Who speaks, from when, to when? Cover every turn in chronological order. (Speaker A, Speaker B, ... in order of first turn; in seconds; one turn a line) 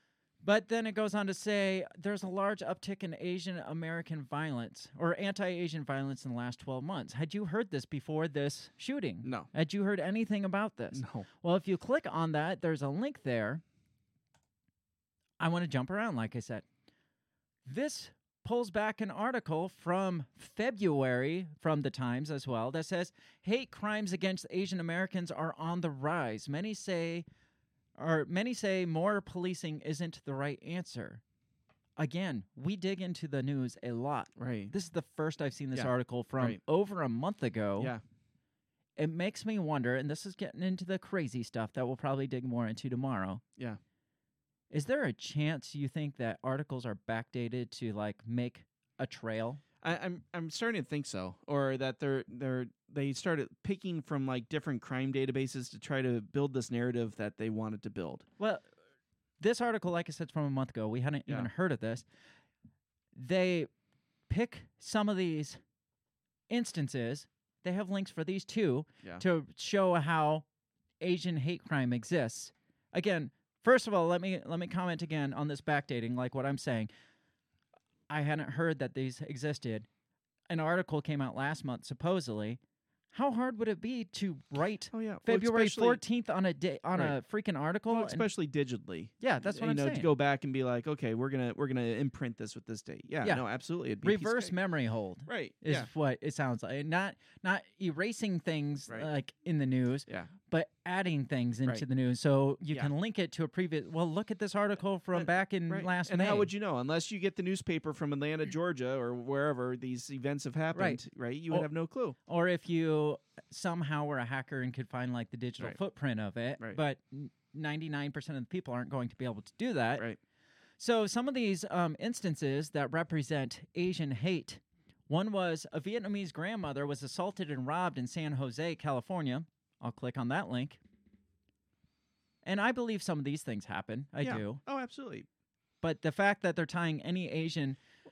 Speaker A: 0.4-13.6
Speaker B: 9.2-9.5
Speaker B: 10.9-11.2
Speaker A: 15.4-16.6
Speaker A: 17.6-27.2
Speaker A: 28.0-31.2
Speaker A: 32.0-37.9
Speaker B: 34.4-34.7
Speaker B: 35.7-36.6
Speaker A: 39.0-43.4
Speaker A: 44.7-49.6
Speaker B: 49.8-58.2
Speaker A: 58.4-58.6
Speaker A: 59.4-62.0
Speaker A: 63.1-63.7
Speaker A: 64.3-65.6
Speaker A: 66.5-70.4
Speaker A: 71.0-76.9
Speaker A: 78.1-79.9
Speaker A: 80.5-82.6
Speaker A: 83.1-88.2
Speaker B: 84.9-86.0
Speaker B: 87.9-94.5
Speaker A: 89.2-90.1
Speaker A: 94.0-106.5
Speaker B: 95.3-95.9
Speaker B: 105.1-112.2
Speaker A: 110.7-111.7
Speaker A: 112.3-120.0
Speaker A: 120.8-130.8
Speaker A: 132.4-134.6
Speaker B: 134.2-135.3
Speaker A: 135.8-137.8